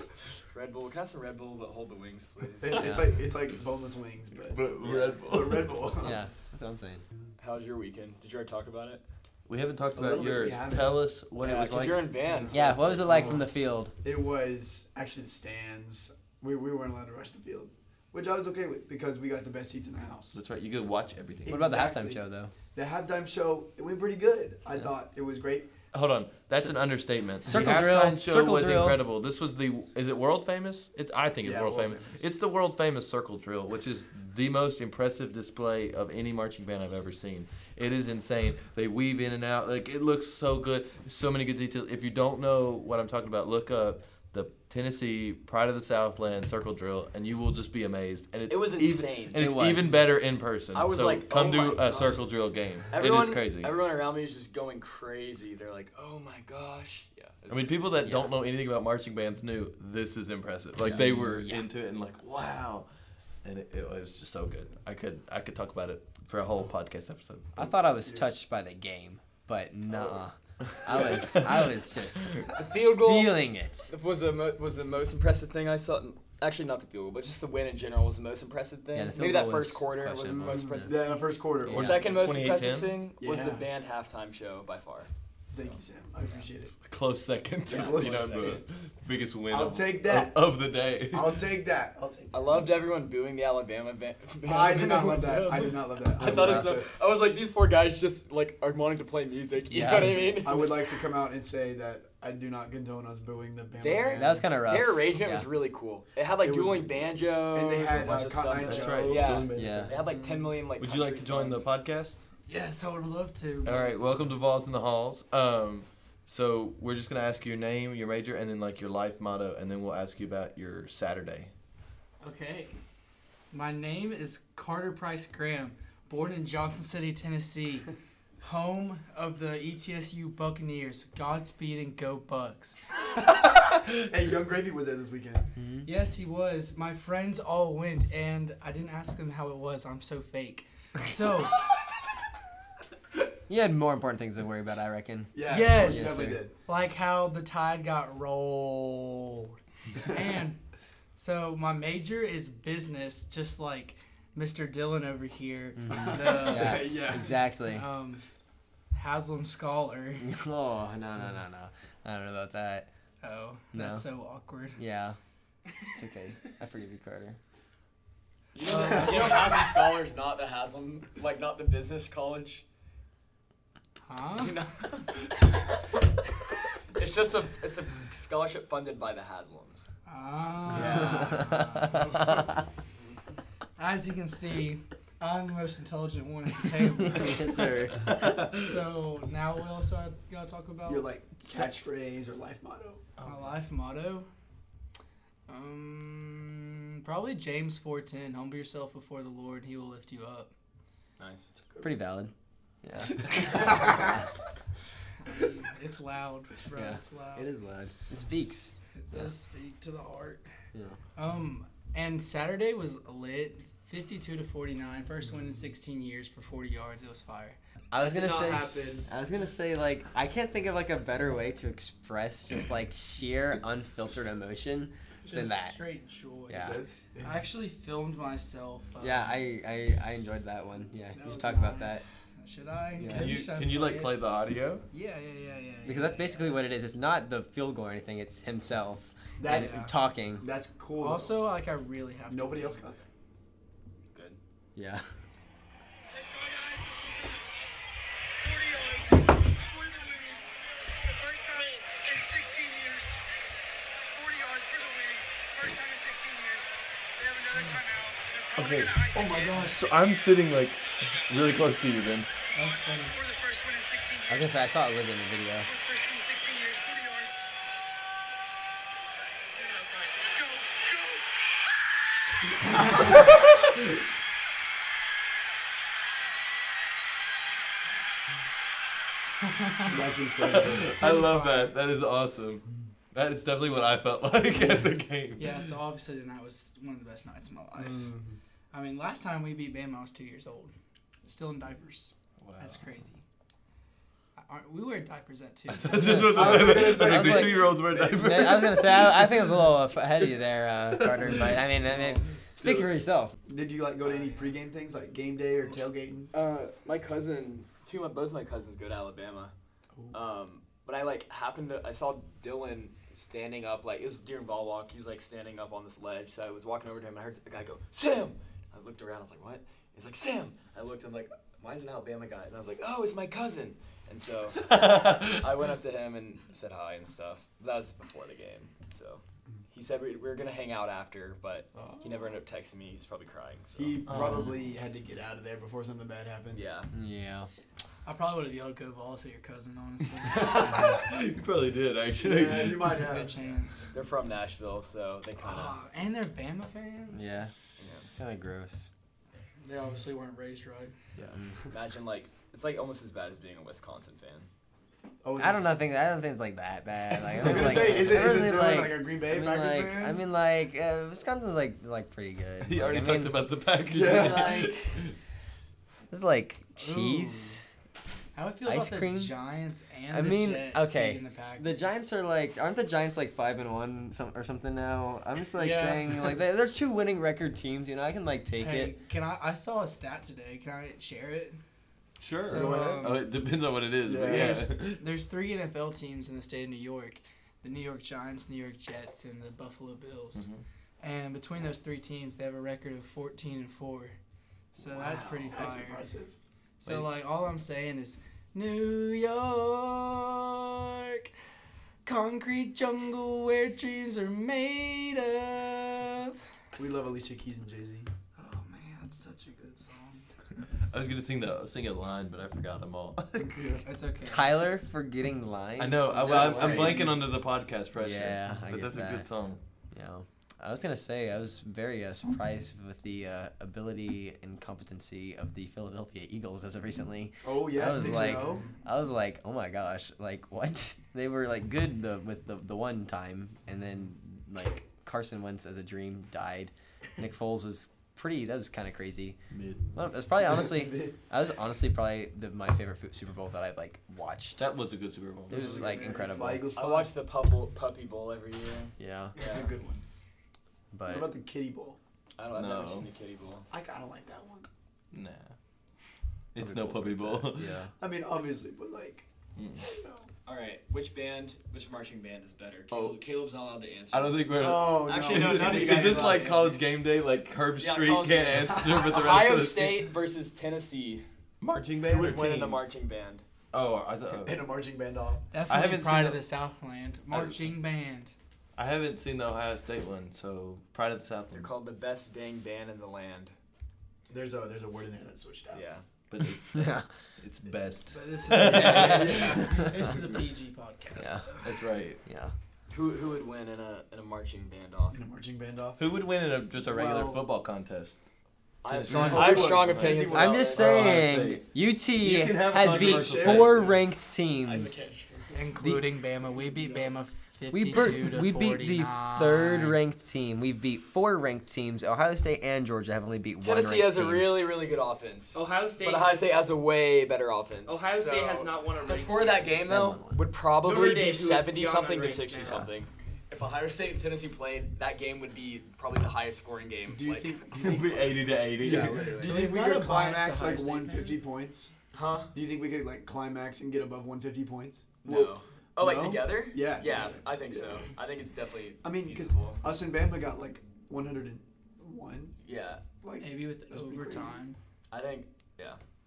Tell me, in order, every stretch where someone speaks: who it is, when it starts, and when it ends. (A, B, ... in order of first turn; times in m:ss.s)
0:00.5-0:03.0 A
0:02.6-0:04.6 B
0:02.8-0:03.0 C
0:04.5-0:05.9 D
0:04.8-0:05.2 A
0:05.3-0:06.2 B
0:06.0-0:07.0 C
0:07.4-0:09.0 A
0:09.5-0:12.2 D
0:09.9-0:11.1 B
0:11.3-0:13.4 A
0:12.2-0:13.4 B
0:12.5-0:13.9 C
0:14.0-0:20.4 B
0:20.3-0:21.8 D
0:21.4-0:25.7 B
0:21.5-0:22.5 C
0:25.9-0:53.8 D
0:27.4-0:29.0 C
0:31.4-0:32.2 B
0:48.5-0:49.6 A
0:49.4-0:50.0 C
0:50.7-0:52.2 A
0:52.9-0:58.0 A
0:57.5-1:02.9 D
0:58.0-0:58.3 C
1:00.8-1:01.7 C
1:03.4-1:07.6 D
1:07.6-1:13.9 C
1:07.6-1:08.3 B
1:10.6-1:11.7 D
1:12.5-1:25.8 A
1:18.9-1:20.9 C
1:20.3-1:22.2 B
1:21.7-1:22.0 C
1:21.7-1:23.0 D
1:23.2-1:23.7 B
1:25.5-1:26.8 B
1:26.8-1:31.4 D
1:27.6-1:28.6 A
1:27.6-1:28.6 B
1:29.5-1:30.4 B
1:31.1-1:32.6 B
1:32.3-1:40.8 A
1:34.4-1:36.9 B
1:36.2-1:36.7 C
1:39.7-1:40.4 C
1:40.1-1:44.5 B
1:43.8-1:51.7 A
1:44.2-1:45.5 C
1:46.4-1:47.0 B
1:47.5-1:50.6 B
1:48.1-1:50.1 D
1:49.5-1:49.9 C
1:50.8-1:52.2 D
1:52.5-1:53.9 E
1:53.6-2:01.5 D
2:02.2-2:02.7 E
2:03.5-2:12.8 E
2:13.1-2:15.5 B
2:15.6-2:15.9 C
2:15.8-2:21.7 E
2:23.5-2:26.4 C
2:25.3-2:26.5 B
2:25.5-2:30.6 E
2:31.2-2:38.2 E
2:35.8-2:37.9 C
2:36.1-2:37.5 B
2:38.9-2:40.3 E
2:40.2-2:42.9 C
2:43.2-2:44.8 E
2:43.7-2:44.1 C
2:44.8-2:45.2 C
2:45.9-2:47.4 C
2:48.5-2:52.6 A
2:48.6-2:49.6 E
2:54.0-2:54.6 E
2:54.3-2:55.4 A
2:56.9-2:59.9 A
3:00.0-3:02.6 E
3:00.7-3:02.6 C
3:00.7-3:01.3 A
3:03.8-3:11.2 E
3:07.0-3:08.1 C
3:08.2-3:08.5 D
3:10.9-3:13.1 B
3:13.2-3:13.5 D
3:13.2-3:14.3 E
3:15.5-3:20.5 E
3:21.2-3:21.5 A
3:21.8-3:24.2 C
3:23.2-3:24.2 E
3:25.2-3:27.5 E
3:26.7-3:29.3 C
3:29.0-3:30.4 E
3:31.2-3:37.6 E
3:37.9-3:45.8 C
3:38.0-3:39.1 F
3:45.2-3:49.3 E
3:46.5-3:46.8 C
3:46.7-3:47.2 D
3:49.0-3:52.0 C
3:51.1-3:54.2 E
3:53.0-3:53.3 C
3:53.0-3:54.8 D
3:54.9-3:56.6 E
3:55.8-4:00.4 C
3:59.4-4:01.4 B
3:59.4-4:00.0 E
4:01.0-4:02.8 E
4:02.3-4:03.0 B
4:04.1-4:04.4 A
4:04.8-4:05.0 C
4:06.1-4:07.5 F
4:08.4-4:13.2 F
4:14.1-4:19.7 F
4:18.6-4:19.0 D
4:19.1-4:19.8 B
4:19.5-4:22.3 D
4:22.5-4:23.2 E
4:22.5-4:24.7 F
4:24.3-4:25.7 C
4:25.6-4:27.4 F
4:29.5-4:31.4 F
4:33.0-4:33.7 D
4:39.4-4:40.0 E
4:39.8-4:41.0 B
4:40.4-4:45.7 D
4:40.8-4:41.7 E
4:45.4-4:48.1 E
4:47.8-4:48.4 B
4:48.7-4:50.7 E
4:51.2-4:53.2 E
4:52.4-4:52.9 D
4:54.4-4:56.6 E
4:55.7-4:59.7 D
4:56.0-5:03.3 C
4:56.3-4:58.3 B
5:01.0-5:01.6 D
5:03.4-5:06.3 B
5:04.0-5:04.5 E
5:06.3-5:09.5 A
5:10.1-5:34.5 A
5:24.6-5:25.5 D
5:31.7-5:32.4 B
5:33.8-5:36.6 B
5:34.1-5:34.5 D
5:36.5-5:36.9 A
5:36.9-5:37.5 C
5:38.0-5:41.0 E
5:40.2-5:43.0 D
5:42.2-5:43.3 B
5:42.9-5:43.9 E
5:43.9-5:45.8 A
5:45.4-5:47.4 E
5:47.1-5:47.5 C
5:47.8-5:48.1 A
5:48.1-5:48.9 C
5:49.6-5:50.9 E
5:51.7-5:54.5 A
5:55.2-5:55.7 B
5:55.4-6:03.4 C
5:57.4-6:00.2 B
6:02.6-6:05.1 D
6:03.9-6:04.7 B
6:04.0-6:04.9 C
6:06.1-6:07.7 C
6:06.8-6:07.6 E
6:08.3-6:12.0 E
6:08.6-6:09.3 C
6:10.1-6:18.9 C
6:15.5-6:16.4 E
6:18.6-6:21.6 E
6:22.2-6:25.0 D
6:22.4-6:23.3 E
6:22.5-6:23.2 B
6:24.0-6:24.6 B
6:24.2-6:30.5 E
6:30.3-6:30.6 D
6:31.0-6:34.2 E
6:34.7-6:36.1 E
6:34.8-6:36.3 B
6:36.8-6:41.3 E
6:42.0-6:46.4 E
6:46.8-6:48.1 B
6:48.4-6:50.2 E
6:50.8-6:53.7 D
6:53.5-6:53.8 B
6:53.8-6:54.7 E
6:54.2-6:57.0 C
6:55.8-6:59.6 D
6:56.2-6:57.3 B
6:58.0-6:59.3 C
6:59.9-7:19.4 C
7:07.4-7:08.7 B
7:19.5-7:19.9 D
7:19.9-7:24.7 C
7:20.4-7:21.1 B
7:24.6-7:26.0 D
7:25.5-7:26.7 C
7:25.5-7:27.1 B
7:26.7-7:29.7 A
7:29.0-7:29.4 C
7:29.3-7:30.0 B
7:30.9-7:31.3 C
7:31.0-7:32.0 B
7:32.4-7:33.7 A
7:32.5-7:33.1 D
7:33.7-7:34.7 B
7:35.1-7:35.5 D
7:36.5-7:37.8 D
7:36.6-7:37.9 C
7:38.0-7:39.2 B
7:39.6-7:39.8 D
7:39.8-7:40.3 B
7:40.4-7:46.7 A
7:42.9-7:43.2 D
7:44.1-7:50.1 D
7:44.6-7:46.4 B
7:47.8-7:51.2 A
7:51.6-7:52.8 D
7:52.0-7:53.4 A
7:53.7-7:54.6 D
7:54.3-7:55.5 B
7:55.5-7:58.3 E
7:55.6-7:56.4 D
7:57.3-7:57.7 D
7:58.8-8:01.7 D
8:01.5-8:03.5 A
8:04.3-8:05.8 B
8:05.7-8:06.0 A
8:06.3-8:09.8 D
8:06.7-8:07.1 C
8:08.1-8:11.8 E
8:08.6-8:09.9 C
8:08.9-8:10.0 B
8:11.2-8:11.5 C
8:11.6-8:12.2 D
8:12.2-8:12.5 C
8:12.9-8:15.2 A
8:15.1-8:16.0 B
8:16.0-8:18.2 D
8:16.7-8:17.5 B
8:18.8-8:21.4 A
8:18.9-8:24.0 D
8:19.0-8:19.5 C
8:19.2-8:21.2 B
8:20.3-8:25.1 C
8:22.8-8:24.0 B
8:24.6-8:25.6 A
8:25.5-8:30.0 E
8:25.8-8:26.1 C
8:26.7-8:27.1 A
8:27.7-8:34.6 C
8:33.6-8:47.6 A
8:35.5-8:36.6 F
8:37.8-8:39.8 F
8:39.8-8:40.4 C
8:40.8-8:42.9 F
8:47.1-8:51.9 B
8:47.7-8:49.5 D
8:48.8-8:49.5 A
8:49.4-8:51.4 E
8:52.1-8:52.5 A
8:52.5-8:58.1 B
8:55.2-8:59.8 A
8:59.0-9:02.6 B
9:02.6-9:03.0 A
9:03.2-9:04.5 B
9:03.4-9:04.8 E
9:05.1-9:06.0 A